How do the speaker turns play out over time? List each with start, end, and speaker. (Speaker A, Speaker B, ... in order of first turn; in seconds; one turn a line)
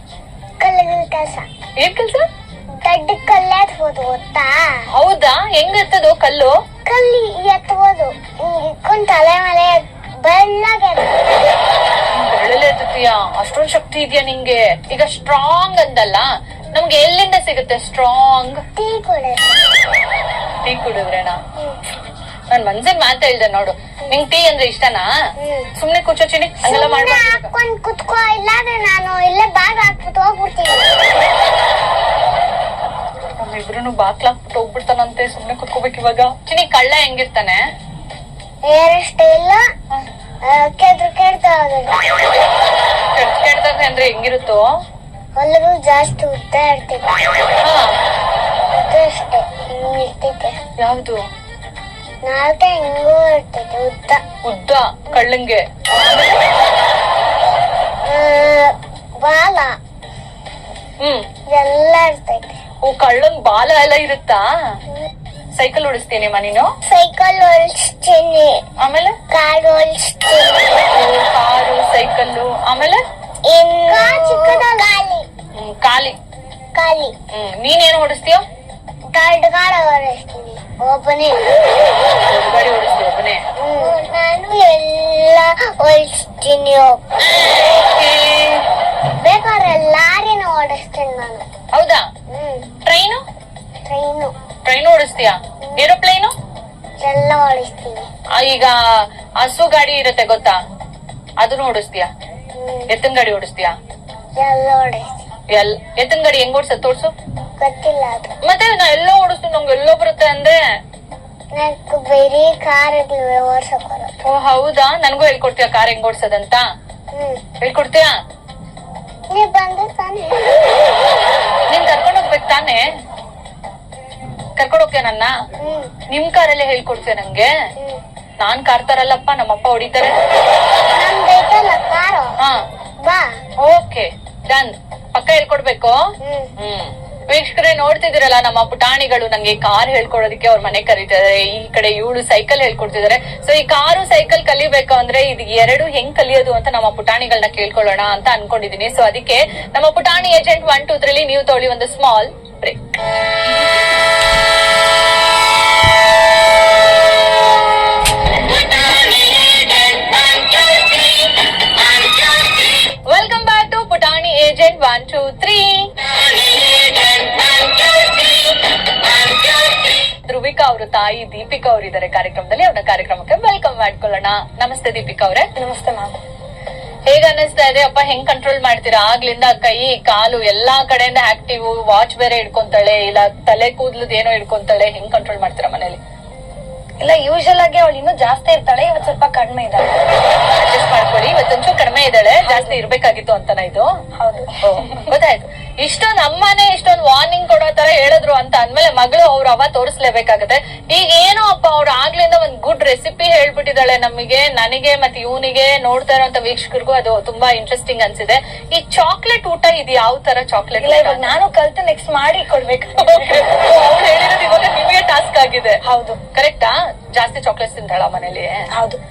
Speaker A: 0.6-1.4
Speaker B: 1.8-2.2
Speaker A: 2.8-4.8
Speaker B: 4.9-6.5
Speaker A: 6.9-11.6
Speaker B: 12.1-18.6
Speaker A: 18.8-19.5
Speaker B: 20.6-21.4
Speaker B: 22.5-25.1
Speaker A: 25.4-25.7
Speaker B: 25.8-27.5
Speaker A: 26.7-31.2
Speaker B: 33.4-37.6
Speaker A: 38.7-39.6
Speaker A: 40.5-42.3
Speaker B: 43.1-44.6
Speaker A: 45.4-47.2
Speaker B: 47.6-48.0
Speaker A: 48.7-50.6
Speaker B: 50.8-51.2
Speaker A: 52.2-54.2
Speaker B: 54.4-56.4
Speaker A: 58.0-59.8
Speaker B: 61.0-61.3
Speaker A: 61.5-62.6
Speaker B: 62.8-64.4
Speaker B: 65.5-66.7
Speaker A: 66.9-68.6
Speaker B: 68.8-69.2
Speaker A: 69.3-70.9
Speaker B: 70.9-73.0
Speaker A: 73.5-75.3
Speaker B: 75.6-76.2
Speaker A: 76.8-77.1
Speaker B: 77.3-78.4
Speaker A: 79.2-81.5
Speaker B: 82.3-83.4
Speaker A: 83.6-87.0
Speaker B: 87.9-88.6
Speaker A: 89.2-91.5
Speaker B: 91.7-92.1
Speaker A: 92.3-92.7
Speaker B: 92.8-93.2
Speaker A: 93.9-94.3
Speaker B: 94.7-96.3
Speaker A: 97.0-98.1
Speaker B: 98.3-98.7
Speaker B: 99.4-100.6
Speaker B: 101.4-102.1
Speaker A: 102.5-102.9
Speaker B: 102.9-103.8
Speaker A: 104.4-105.2
Speaker B: 105.5-107.1
Speaker A: 107.6-108.3
Speaker B: 108.4-110.6
Speaker A: 111.6-114.1
Speaker B: 114.2-116.6
Speaker A: 117.1-117.4
Speaker B: 117.6-118.1
Speaker A: 119.3-120.8
Speaker B: 121.7-122.8
Speaker B: 124.6-125.3
Speaker A: 125.6-125.9
Speaker B: 126.1-127.5
Speaker B: 128.4-130.2
Speaker A: 130.9-132.3
Speaker A: 133.0-133.3
Speaker B: 133.6-136.0
Speaker A: 136.2-136.5
Speaker B: 136.6-152.8
Speaker B: 163.1-165.9
Speaker B: 170.2-175.5
Speaker C: 175.6-176.2
Speaker B: 177.1-186.0
Speaker C: 187.0-190.0
Speaker B: 190.5-193.9
Speaker C: 192.5-192.8
Speaker C: 194.2-194.6
Speaker B: 194.6-211.3
Speaker C: 210.8-213.0
Speaker B: 213.0-215.8
Speaker C: 215.9-216.2
Speaker B: 216.3-218.6